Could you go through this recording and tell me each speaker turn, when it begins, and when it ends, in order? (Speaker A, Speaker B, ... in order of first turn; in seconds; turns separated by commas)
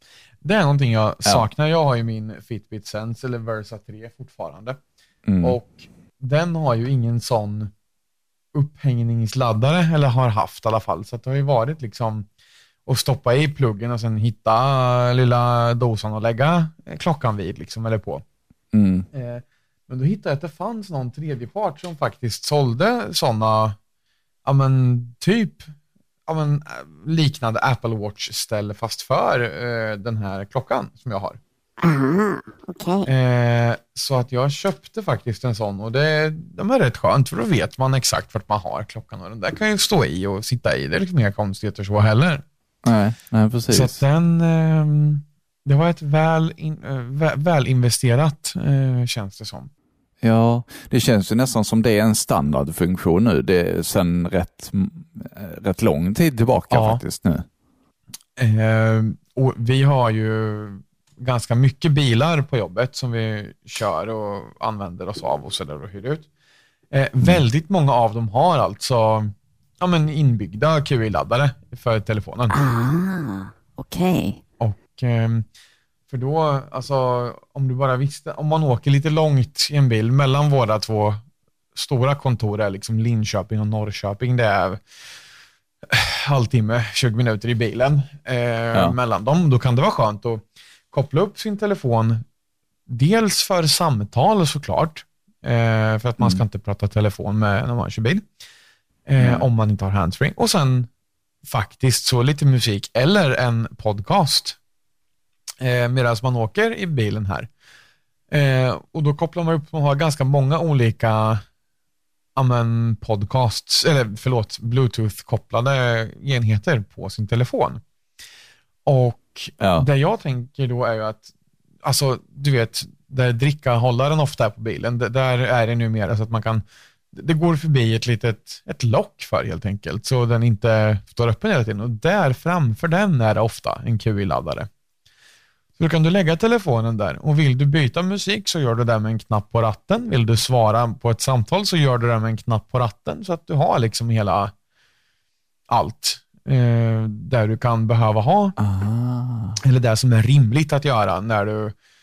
Speaker A: 0.4-4.8, Speaker B: 5.2-5.6, Speaker A: 5.4-7.7, Speaker A: 8.5-12.3, Speaker A: 12.8-18.2, Speaker B: 18.7-19.1, Speaker A: 19.1-23.8, Speaker A: 24.4-25.7, Speaker A: 26.3-31.4, Speaker C: 31.8-33.1, Speaker A: 33.1-42.4, Speaker B: 42.8-44.0, Speaker A: 43.7-49.7, Speaker B: 50.2-57.4, Speaker A: 56.7-57.0, Speaker A: 58.4-66.3, Speaker A: 66.9-72.5, Speaker C: 72.5-74.3, Speaker A: 74.6-75.4, Speaker A: 76.1-81.2, Speaker A: 81.7-84.8, Speaker A: 85.9-92.2, Speaker A: 92.9-98.2, Speaker A: 99.1-100.9, Speaker B: 99.2-99.5, Speaker A: 101.4-104.6, Speaker A: 105.6-107.5, Speaker A: 108.3-111.4, Speaker A: 112.3-117.8, Speaker A: 118.8-121.3, Speaker B: 119.6-119.9, Speaker A: 121.8-134.7, Speaker A: 135.8-144.5, Speaker A: 145.7-148.6, Speaker B: 148.6-149.6, Speaker A: 149.6-151.7